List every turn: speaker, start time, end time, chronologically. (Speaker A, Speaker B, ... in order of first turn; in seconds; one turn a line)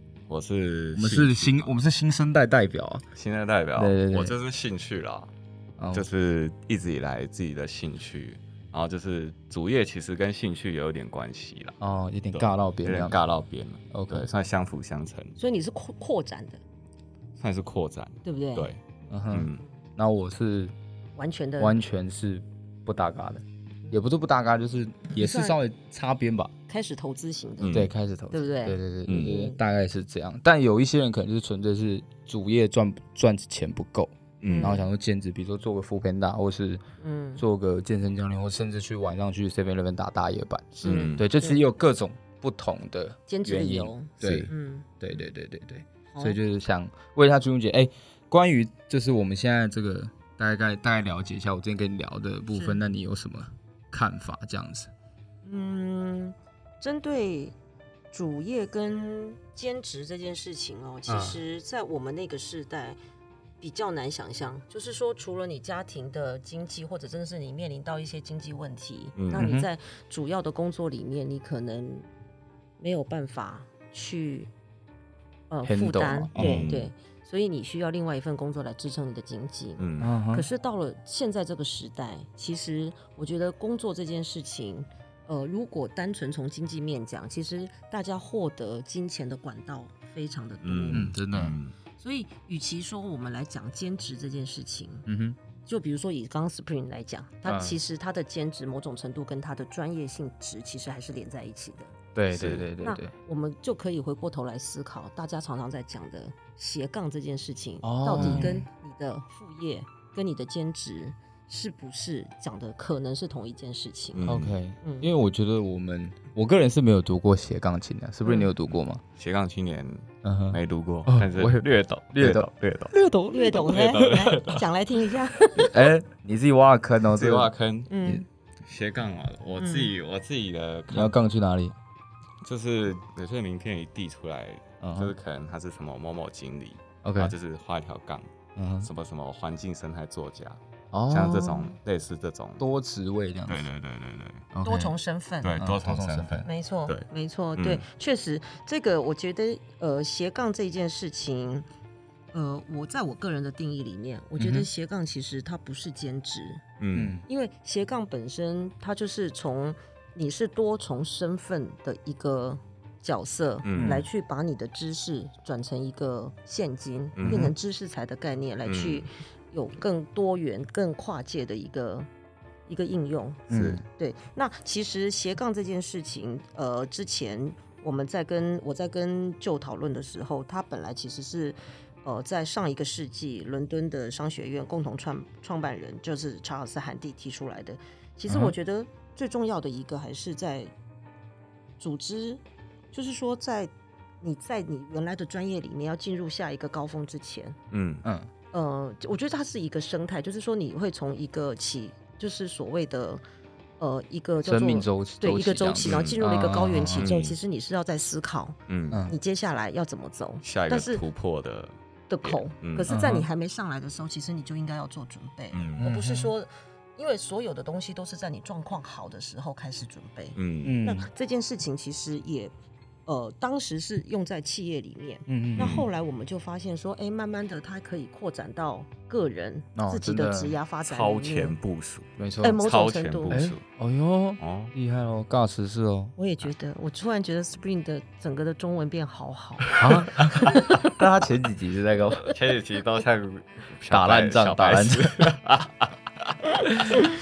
Speaker A: 0.3-1.6
Speaker B: 0.9-3.0
Speaker A: 3.1-5.3
Speaker B: 3.8-4.4
Speaker B: 5.8-6.1
Speaker A: 5.9-11.8
Speaker B: 11.8-13.2
Speaker A: 12.3-15.4
Speaker B: 13.9-14.3
Speaker C: 15.4-16.6
Speaker A: 17.4-18.8
Speaker C: 18.2-18.7
Speaker B: 19.1-20.7
Speaker A: 19.3-19.6
Speaker C: 21.1-21.8
Speaker B: 21.6-26.5
Speaker C: 25.1-25.6
Speaker C: 26.7-29.6
Speaker A: 27.6-27.9
Speaker B: 27.7-36.8
Speaker A: 29.1-29.4
Speaker A: 34.4-34.8
Speaker C: 34.5-34.9
Speaker C: 37.0-37.4
Speaker B: 37.4-54.9
Speaker A: 40.8-41.2
Speaker C: 40.8-41.6
Speaker C: 43.3-44.9
Speaker A: 44.2-44.5
Speaker C: 46.1-46.4
Speaker C: 52.5-52.8
Speaker C: 55.4-57.5
Speaker C: 58.1-63.0
Speaker B: 61.1-61.4
Speaker C: 63.6-72.1
Speaker A: 69.2-69.5
Speaker B: 69.3-69.7
Speaker C: 72.8-74.5
Speaker C: 75.5-91.1
Speaker B: 75.6-76.7
Speaker A: 76.3-76.9
Speaker A: 79.8-80.1
Speaker B: 80.0-80.5
Speaker A: 90.6-91.7
Speaker B: 90.9-91.6
Speaker C: 92.0-95.0
Speaker B: 95.0-95.4
Speaker C: 95.7-101.9
Speaker B: 97.5-97.8
Speaker B: 102.1-103.1
Speaker A: 102.3-102.7
Speaker C: 102.8-114.3
Speaker B: 107.8-108.6
Speaker A: 108.2-108.6
Speaker A: 114.1-114.6
Speaker B: 114.2-119.0
Speaker C: 114.8-115.1
Speaker C: 118.2-118.5
Speaker A: 119.2-122.9
Speaker B: 120.2-123.7
Speaker C: 123.3-125.7
Speaker A: 123.5-124.7
Speaker B: 125.5-127.5
Speaker A: 127.1-127.9
Speaker C: 127.9-128.2
Speaker A: 128.7-131.1
Speaker C: 129.6-129.9
Speaker B: 130.9-131.7
Speaker A: 132.4-138.3
Speaker B: 134.8-135.1
Speaker B: 137.0-137.3
Speaker B: 138.6-138.9
Speaker A: 138.8-142.6
Speaker B: 140.9-141.7
Speaker B: 142.6-143.7
Speaker A: 143.5-144.5
Speaker B: 144.5-144.9
Speaker C: 144.6-145.6
Speaker A: 145.4-147.8
Speaker B: 145.6-146.4
Speaker C: 146.4-151.7
Speaker C: 152.3-156.6
Speaker B: 154.4-154.7
Speaker A: 156.8-157.2
Speaker B: 156.9-157.2
Speaker C: 157.3-172.1
Speaker A: 163.6-164.0
Speaker B: 163.8-164.1
Speaker A: 167.2-167.5
Speaker B: 167.2-167.5
Speaker A: 168.7-169.1
Speaker C: 172.7-190.7
Speaker B: 173.5-173.8
Speaker A: 173.5-173.8
Speaker B: 188.3-188.5
Speaker C: 191.8-192.4
Speaker C: 192.9-197.6
Speaker A: 197.7-198.0
Speaker B: 198.0-198.3
Speaker C: 198.5-203.2
Speaker C: 203.8-211.0
Speaker B: 204.4-207.1
Speaker A: 205.8-206.2
Speaker A: 206.8-207.3
Speaker A: 208.7-209.0
Speaker A: 210.4-212.9
Speaker C: 212.1-222.5
Speaker B: 212.9-213.3
Speaker A: 215.5-215.9
Speaker B: 215.8-216.3
Speaker A: 220.3-220.7
Speaker B: 220.6-221.1
Speaker C: 223.1-231.6
Speaker B: 225.3-225.8
Speaker A: 225.6-225.9
Speaker B: 229.8-230.6
Speaker A: 230.8-233.6
Speaker B: 232.2-232.6
Speaker C: 232.4-233.4
Speaker B: 233.3-236.1
Speaker A: 234.4-234.7
Speaker C: 236.2-240.9
Speaker B: 239.8-242.3
Speaker A: 242.1-245.9
Speaker B: 243.9-245.3
Speaker B: 246.7-247.0